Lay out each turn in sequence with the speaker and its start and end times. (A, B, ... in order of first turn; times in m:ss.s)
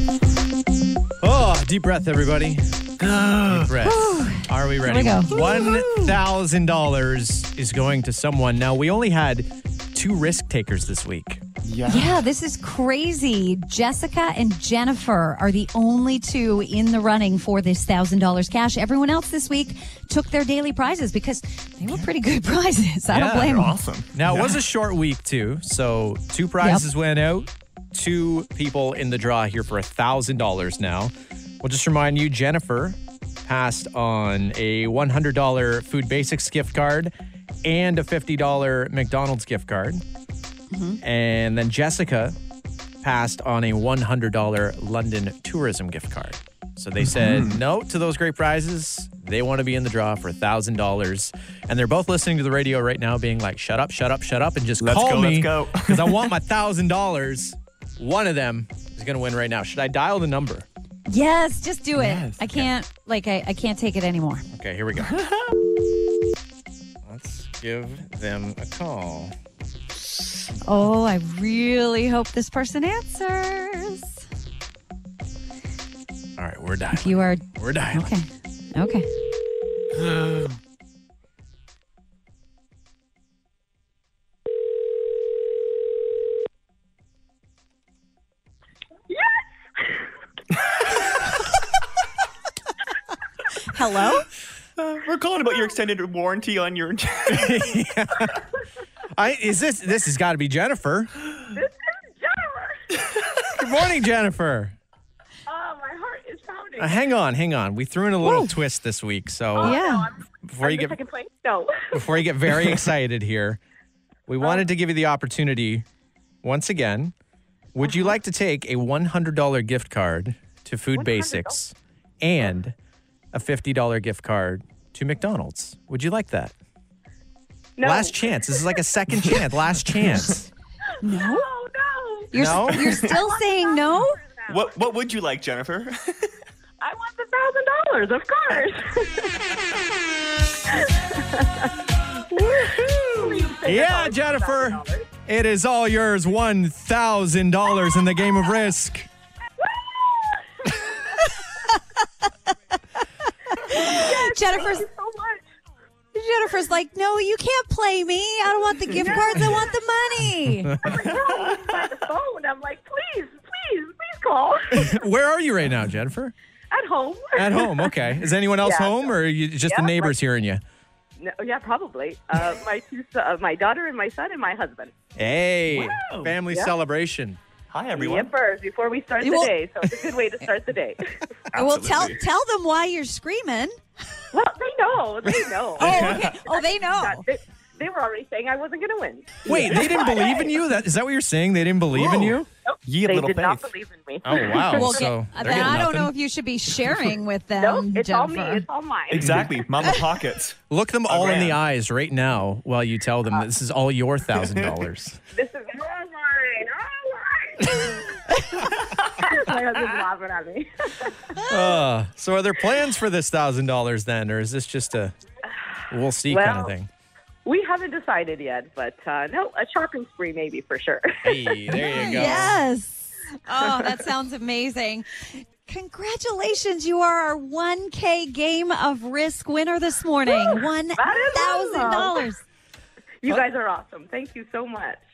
0:01.2-0:02.6 A
0:03.0-0:03.7 B
0:03.5-0:11.4 A
0:03.8-0:06.1 C
0:05.3-0:05.8 B
0:11.6-0:12.2 B
0:11.8-0:23.8 C
0:23.1-0:37.1 A
0:23.4-0:24.6 B
0:37.6-0:40.0 A
0:40.7-0:41.0 C
0:41.0-0:42.4 A
0:43.0-1:00.6 A
0:47.0-0:47.6 B
0:54.8-0:56.3 B
1:01.1-1:04.4 C
1:01.9-1:02.4 B
1:04.5-1:05.1 A
1:04.9-1:05.5 B
1:07.0-1:09.3 A
1:10.6-1:14.2 C
1:16.4-1:18.1 A
1:16.9-1:19.0 C
1:20.0-1:20.5 B
1:29.1-1:30.1 D
1:33.7-1:34.3 C
1:34.8-1:37.8 B
1:37.3-1:38.4 A
1:39.1-1:41.1 A
1:41.5-1:42.8 D
1:43.5-1:44.7 A
1:45.5-1:47.0 D
1:46.8-1:49.8 A
1:48.2-1:48.5 C
1:49.6-1:52.0 D
1:49.6-1:50.1 C
1:50.4-1:51.0 A
1:51.9-1:53.6 A
1:54.3-1:55.8 A
1:54.4-1:54.6 D
1:56.4-1:57.1 A
1:57.7-2:02.8 A
2:00.9-2:01.6 D
2:03.3-2:06.5 A
2:07.8-2:08.8 D
2:07.8-2:10.5 A
2:11.0-2:11.4 C
2:11.1-2:14.6 D
2:12.3-2:14.2 C
2:12.3-2:13.0 A
2:14.5-2:16.3 B
2:16.8-2:19.3 D
2:20.7-2:21.7 D
2:22.3-2:25.1 D
2:22.9-2:23.4 B
2:23.6-2:29.1 A
2:29.6-2:31.0 D
2:33.6-2:34.9 C
2:33.7-2:35.4 D
2:36.1-2:40.7 C
2:38.9-2:39.6 D
2:40.4-2:41.1 A
2:40.8-2:45.0 D
2:41.4-2:41.8 B
2:44.7-2:46.3 A
2:46.7-2:47.9 D
2:47.3-2:50.6 A
2:48.6-2:49.1 D
2:49.6-2:50.1 D
2:51.2-2:54.9 D
2:55.2-2:57.4 A
2:55.7-2:56.3 B
2:56.5-2:56.7 D
2:57.7-2:58.3 B
2:58.0-3:01.0 D
2:59.2-2:59.5 C
3:01.5-3:02.2 B
3:01.5-3:03.7 C
3:04.3-3:10.5 D
3:05.8-3:06.4 B
3:05.8-3:07.2 C
3:09.4-3:12.4 A
3:09.6-3:09.9 B
3:11.9-3:13.7 B
3:12.6-3:15.0 D
3:14.2-3:16.1 A
3:14.7-3:18.6 C
3:17.6-3:19.6 D
3:19.1-3:20.6 B
3:19.2-3:19.5 A
3:20.7-3:25.2 A
3:21.1-3:21.6 B
3:25.3-3:28.0 D
3:28.6-3:31.1 D
3:31.4-3:35.1 A
3:35.9-3:36.9 A
3:36.3-3:36.7 D
3:37.4-3:41.6 D
3:41.2-3:42.6 A
3:41.7-3:52.4 C
3:50.3-3:52.3 D
3:53.2-3:55.0 D